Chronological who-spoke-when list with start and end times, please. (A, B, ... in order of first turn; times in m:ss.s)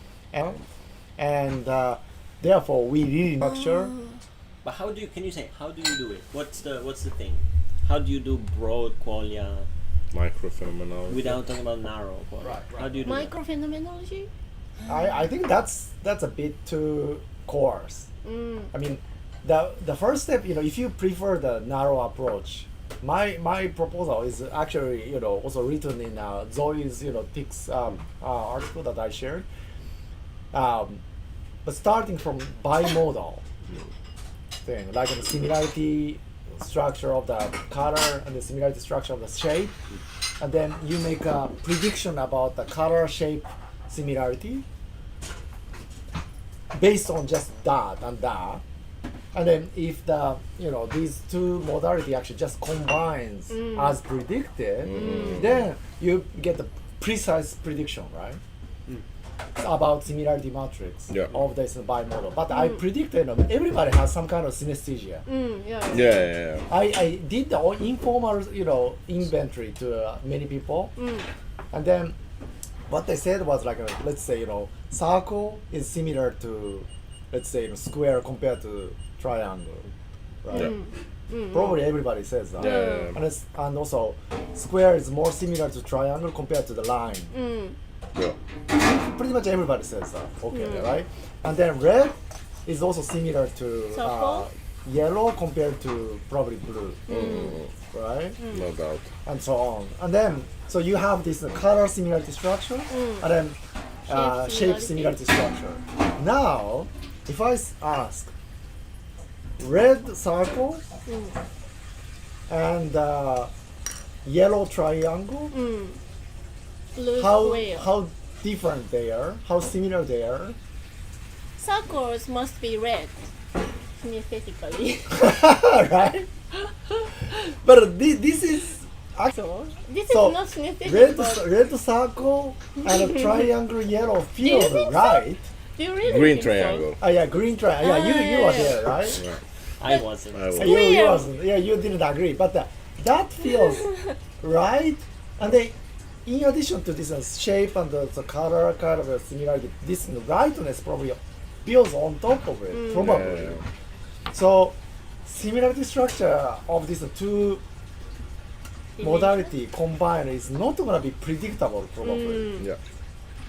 0:00.3-0:00.6 A
0:01.2-0:03.9 A
0:03.4-0:04.2 B
0:04.6-0:09.7 C
0:10.1-0:11.4 D
0:11.1-0:13.3 C
0:12.5-0:12.8 A
0:13.0-0:14.3 B
0:14.9-0:18.1 A
0:18.2-0:18.7 B
0:18.7-0:29.5 A
0:30.5-0:31.0 A
0:31.6-0:33.4 A
0:34.6-0:39.8 A
0:40.4-0:44.7 A
0:46.7-0:48.6 A
0:49.3-0:58.4 A
0:53.5-0:53.9 B
0:54.9-0:55.6 D
0:59.6-1:05.2 A
1:05.2-1:06.3 B
1:05.9-1:06.6 D
1:06.7-1:10.9 A
1:11.0-1:11.2 B
1:11.7-1:12.2 A
1:12.9-1:19.9 A
1:20.4-1:20.8 A
1:20.5-1:21.9 B
1:21.5-1:27.3 A
1:22.6-1:23.2 D
1:22.6-1:23.1 B
1:27.3-1:27.8 B
1:28.7-1:37.4 A
1:30.5-1:30.9 B
1:33.9-1:34.5 B
1:37.1-1:37.6 B
1:37.1-1:37.7 D
1:37.9-1:38.4 A
1:38.4-1:39.1 D
1:39.2-1:48.3 A
1:42.9-1:43.3 B
1:44.1-1:45.2 B
1:49.6-1:50.8 A
1:51.0-1:51.3 B
1:52.5-1:53.5 A
1:54.2-1:55.6 A
1:55.5-1:56.0 B
1:56.9-1:57.9 B
1:57.2-2:00.6 A
2:01.6-2:03.3 B
2:04.0-2:05.3 B
2:05.1-2:06.3 A
2:07.3-2:09.3 A
2:09.3-2:11.5 B
2:10.1-2:15.5 A
2:12.8-2:13.4 B
2:14.4-2:16.9 B
2:16.0-2:17.0 D
2:17.0-2:19.2 A
2:17.8-2:18.8 B
2:19.8-2:20.7 C
2:20.3-2:20.8 D
2:20.6-2:21.3 B
2:20.6-2:33.6 A
2:32.7-2:33.1 B
2:32.9-2:33.6 D
2:34.3-2:37.6 A
2:39.0-2:39.5 B
2:39.0-2:42.5 A
2:42.0-2:42.7 B